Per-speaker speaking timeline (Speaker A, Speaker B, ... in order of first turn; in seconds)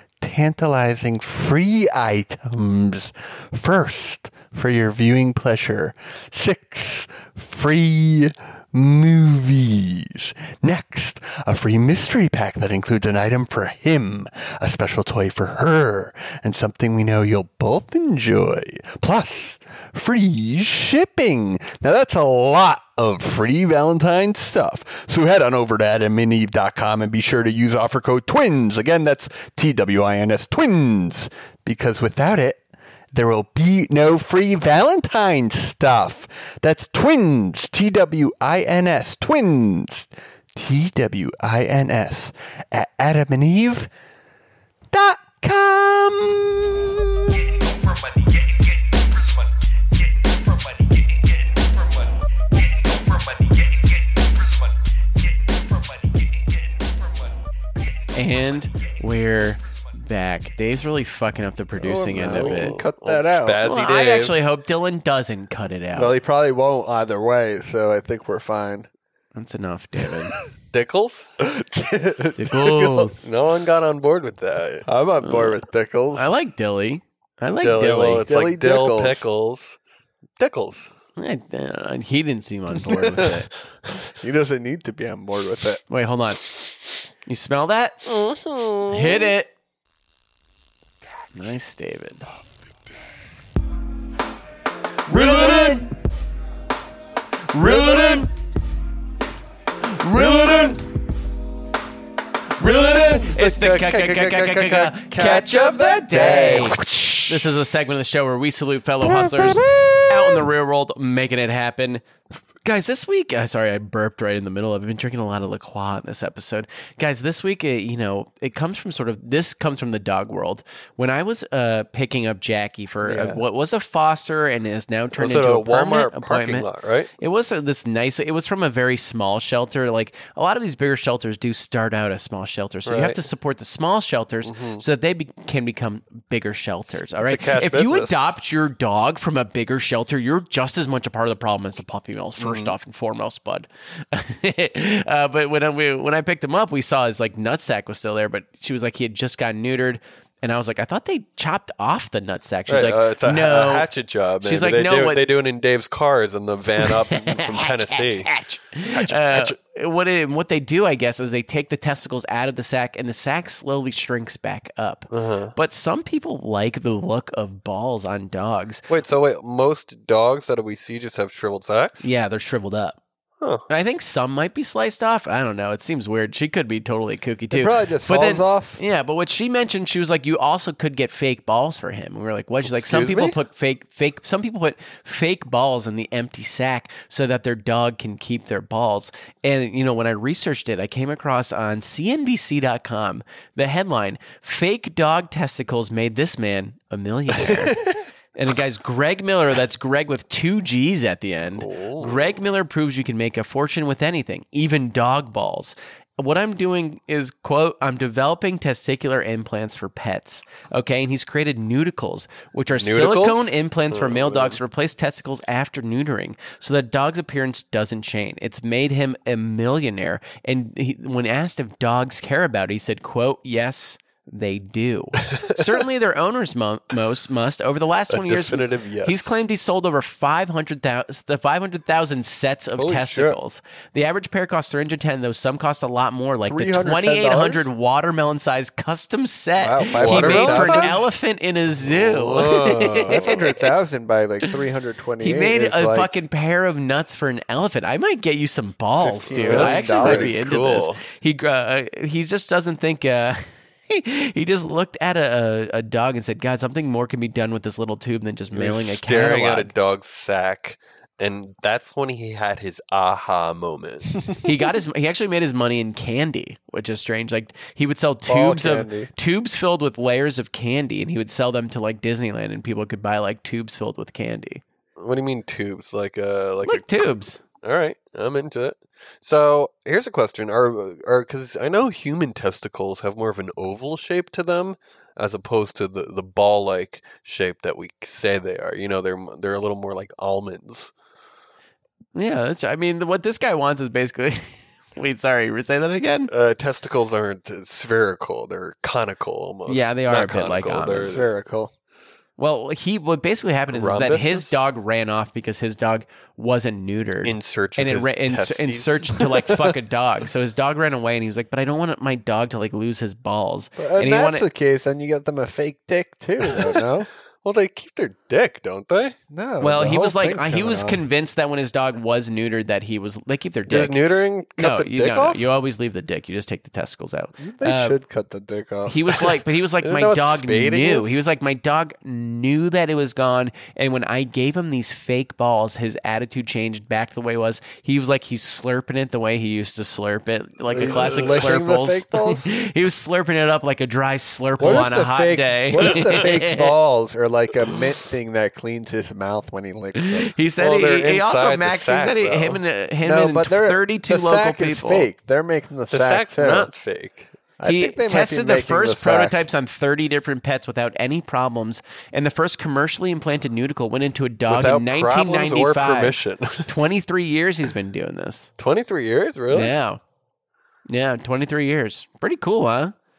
Speaker A: 0.2-43.9, 44.9-47.4, 61.8-63.6, 65.9-68.9, 71.4-73.1, 74.8-76.3, 78.2-79.2, 84.0-85.8, 95.1-95.9, 97.6-98.3, 100.1-100.8, 102.6-107.5, 109.0-110.4, 123.1-123.4, 177.5-178.8, 182.7-183.3, 232.8-233.3, 236.5-237.7, 239.6-241.1, 243.1-246.2, 249.0-250.3, 268.3-269.1, 300.9-301.7, 313.8-317.1, 319.3-321.0, 327.4-329.2, 340.7-342.5, 344.6-350.3, 353.0-356.7, 357.6-359.5
Speaker B: 58.1-62.8, 63.6-66.2, 69.3-70.3, 72.4-73.2, 75.2-75.6, 76.1-78.3, 81.2-83.5, 85.9-86.7, 87.2-88.1, 88.9-89.5, 91.3-92.2, 97.5-98.3, 100.0-100.6, 102.6-112.0, 112.6-153.9, 154.4-155.2, 156.8-168.9, 172.0-173.0, 173.7-197.8, 198.3-243.7, 245.2-259.7, 264.4-274.6, 276.6-277.4, 292.1-296.3, 299.7-301.1, 302.4-314.5, 319.6-324.0, 324.6-328.0, 328.9-346.7, 350.0-355.1, 357.7-368.5, 369.5-370.0, 370.9-372.9
Speaker C: 62.2-64.4, 70.7-71.3, 73.2-74.9, 77.6-79.8, 80.4-80.9, 88.0-89.3, 125.1-127.1, 132.8-133.2, 134.4-134.8, 137.2-138.3, 142.4-142.8, 152.7-158.3, 158.8-159.6, 165.1-165.6, 168.9-172.1, 173.4-173.7, 201.6-202.4, 212.7-214.6, 225.3-225.6, 228.1-229.3, 240.0-241.0, 241.8-243.4, 249.3-251.0, 258.5-264.2, 275.0-290.9, 296.3-301.3, 303.7-304.6, 307.2-309.7, 316.4-316.9, 317.4-319.2, 323.7-325.4, 329.8-331.2, 340.7-341.6, 350.6-352.6, 355.9-357.3, 364.5-366.7, 368.6-369.7